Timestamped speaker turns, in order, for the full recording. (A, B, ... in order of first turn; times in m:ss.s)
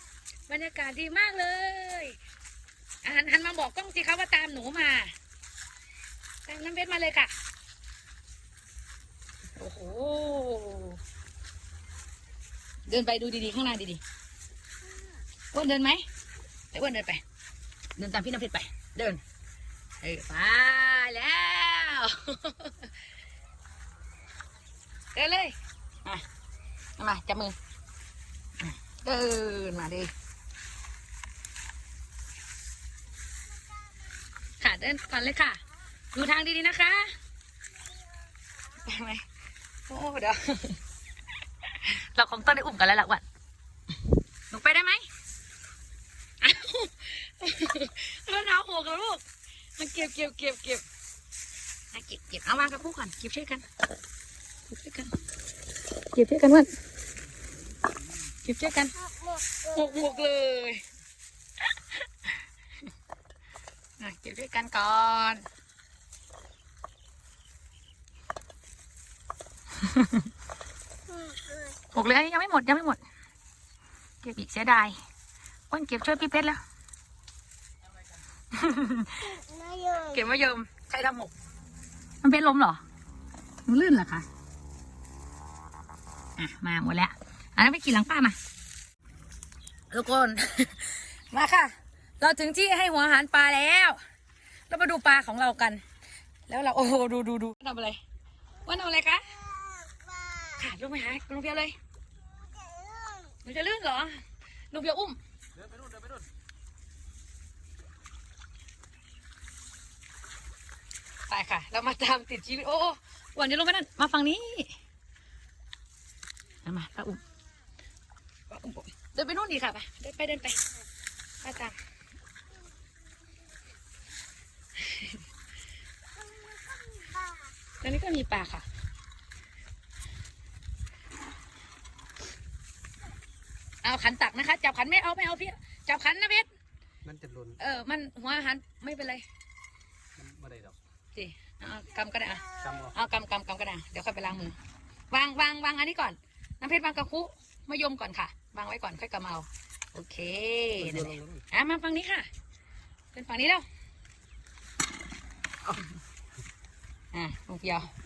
0:00.5-0:02.2 A
0:03.0-0:05.1 A
0:06.4-0:07.3 A
0:09.6-0:11.0 A
0:12.9-0:14.0 A
0:15.5-0:16.0 A
0:16.7-0:17.2 A
0:18.0-0:19.2 A
0:20.0-0:22.9 A
0:25.1-0:26.2 A
0:27.0-0:27.5 A
0:28.6-0:30.1 A
0:34.6-0:35.6 A
0:36.1-0:37.1 A
0:38.8-0:39.2 A
0:39.9-0:40.8 A
0:41.7-0:43.2 A
0:44.5-0:45.0 A
0:46.4-0:49.2 A
0:49.8-0:50.8 A
0:51.9-0:53.6 A
0:54.7-0:55.1 A
0:56.1-0:56.7 A
0:58.4-0:58.9 A
0:58.9-1:00.3 B
0:59.7-1:00.8 A
1:04.0-1:05.4 A
1:09.8-1:10.2 A
1:11.1-1:11.7 B
1:11.9-1:13.0 A
1:14.2-1:15.0 A
1:15.7-1:16.6 A
1:18.5-1:19.3 A
1:19.2-1:20.2 B
1:20.1-1:21.3 A
1:22.2-1:22.8 A
1:23.6-1:24.3 A
1:26.4-1:28.4 A
1:29.9-1:34.0 A
1:34.7-1:35.8 A
1:36.5-1:38.0 A
1:38.6-1:39.3 A
1:39.4-1:40.6 B
1:40.6-1:41.8 A
1:42.3-1:43.4 B
1:43.4-1:44.2 A
1:44.7-1:45.2 A
1:45.7-1:46.2 C
1:51.3-1:54.8 A
1:56.6-1:57.2 A
1:58.5-2:00.6 A
2:01.4-2:01.7 A
2:04.9-2:05.1 A
2:06.2-2:07.5 B
2:07.8-2:08.6 A
2:13.8-2:16.5 A
2:17.0-2:17.6 C
2:17.6-2:19.2 A
2:20.2-2:20.8 C
2:21.1-2:24.6 A
2:22.6-2:22.9 C
2:25.1-2:32.3 A
2:30.9-2:31.4 C
2:33.1-2:33.6 A
2:37.1-2:37.9 A